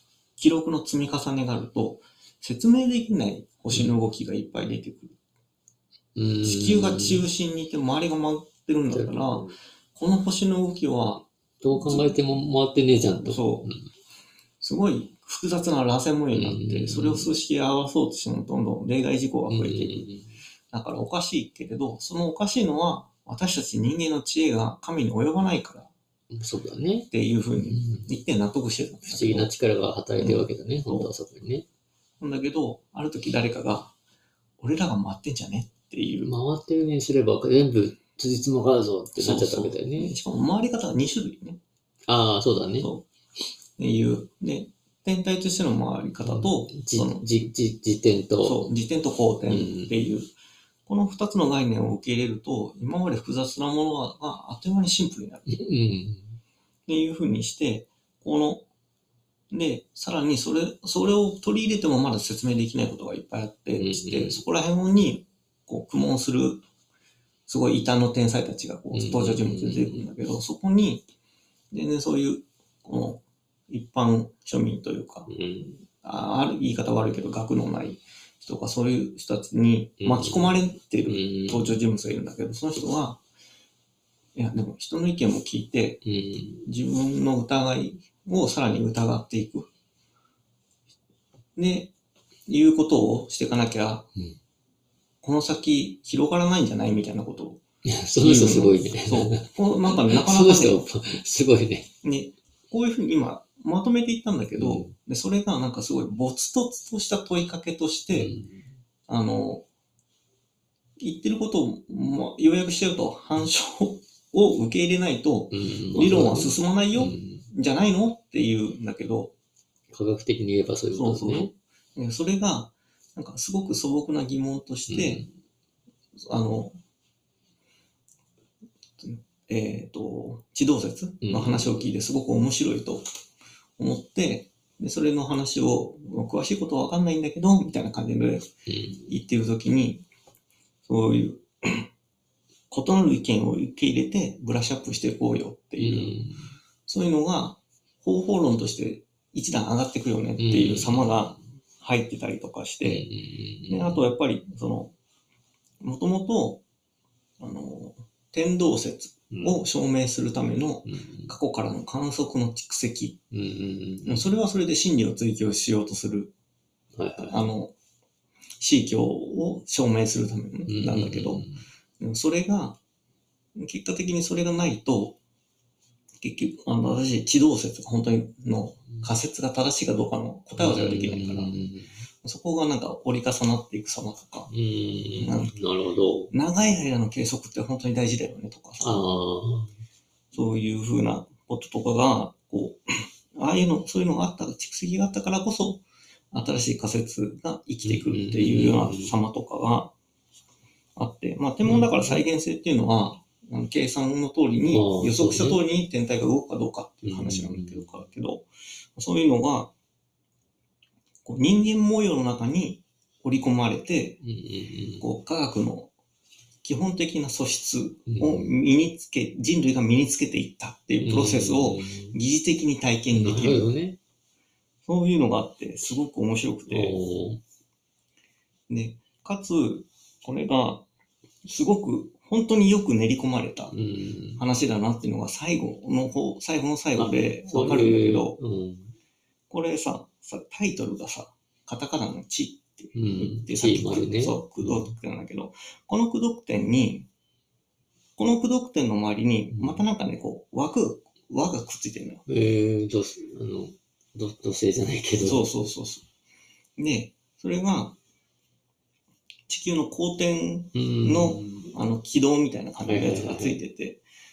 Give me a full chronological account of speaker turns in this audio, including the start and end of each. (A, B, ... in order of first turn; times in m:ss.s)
0:00.4-0:05.2 A
0:06.2-0:07.2 B
0:06.4-0:12.2 A
0:08.9-0:09.6 B
0:11.6-0:13.9 B
0:13.2-0:13.7 A
0:14.6-0:20.1 A
0:16.3-0:17.3 B
0:19.5-0:20.4 B
0:20.7-0:25.9 A
0:26.3-0:27.1 B
0:27.1-0:29.5 A
0:27.6-0:28.1 B
0:29.0-0:31.6 B
0:30.2-0:31.1 A
0:32.2-0:33.9 A
0:34.6-0:36.4 A
0:36.2-0:40.2 B
0:39.1-0:41.6 A
0:42.1-0:42.9 B
0:42.8-0:43.1 A
0:43.8-0:47.5 A
0:46.2-0:48.6 B
0:48.4-0:50.3 A
0:49.5-0:50.1 B
0:50.8-0:55.5 A
0:55.5-0:56.4 B
0:56.9-0:58.6 A
0:59.5-1:06.6 A
1:03.7-1:04.4 B
1:07.5-1:11.0 A
1:08.9-1:10.1 B
1:11.7-1:15.3 A
1:15.3-1:15.8 B
1:16.0-1:23.2 A
1:20.0-1:21.8 B
1:24.4-1:26.0 A
1:26.0-1:26.8 B
1:26.6-1:29.7 A
1:31.6-1:31.9 A
1:32.5-1:34.1 A
1:35.2-1:37.6 A
1:37.8-1:41.9 B
1:38.2-1:40.9 A
1:42.0-1:48.3 A
1:44.5-1:44.9 B
1:48.1-1:48.7 B
1:49.1-1:49.6 A
1:51.0-1:59.3 A
1:55.5-1:57.5 B
1:59.9-2:01.5 B
2:00.9-2:05.2 A
2:04.9-2:05.3 B
2:06.3-2:06.8 A
2:09.0-2:13.1 A
2:11.2-2:11.8 B
2:13.8-2:18.5 A
2:18.7-2:19.2 B
2:19.1-2:20.0 A
2:20.8-2:21.9 A
2:22.7-2:26.2 A
2:25.8-2:26.6 B
2:26.9-2:33.1 A
2:30.4-2:31.4 B
2:32.8-2:34.1 B
2:33.7-2:34.9 A
2:35.8-2:36.6 A
2:37.4-2:43.2 A
2:39.3-2:39.6 B
2:40.8-2:41.3 B
2:43.3-2:44.3 B
2:44.0-2:46.3 A
2:47.0-2:47.4 B
2:47.2-2:47.7 A
2:48.6-2:51.5 A
2:50.7-2:51.6 B
2:52.0-2:52.8 A
2:53.6-2:55.2 A
2:56.2-3:01.5 A
3:00.6-3:02.0 B
3:02.2-3:04.5 A
3:04.5-3:06.3 B
3:05.2-3:05.6 A
3:06.3-3:09.1 A
3:08.8-3:09.7 B
3:10.3-3:19.9 A
3:17.8-3:19.2 B
3:21.0-3:29.7 A
3:21.6-3:22.2 B
3:24.7-3:25.6 B
3:27.0-3:28.1 B
3:31.2-3:34.2 A
3:34.2-3:35.1 B
3:35.0-3:35.9 A
3:36.6-3:43.7 A
3:38.1-3:38.6 B
3:41.0-3:42.2 B
3:43.1-3:44.0 B
3:44.8-3:47.0 A
3:46.7-3:47.4 B
3:48.7-3:50.9 A
3:51.4-3:53.7 A
3:53.7-3:54.5 B
3:54.4-3:58.4 A
3:57.0-3:58.9 B
3:59.5-4:07.1 A
4:02.9-4:04.9 B
4:08.2-4:12.2 A
4:09.5-4:09.9 B
4:12.3-4:15.4 B
4:15.2-4:16.0 A
4:16.8-4:18.0 A
4:19.5-4:24.0 A
4:20.7-4:21.8 B
4:22.8-4:23.6 B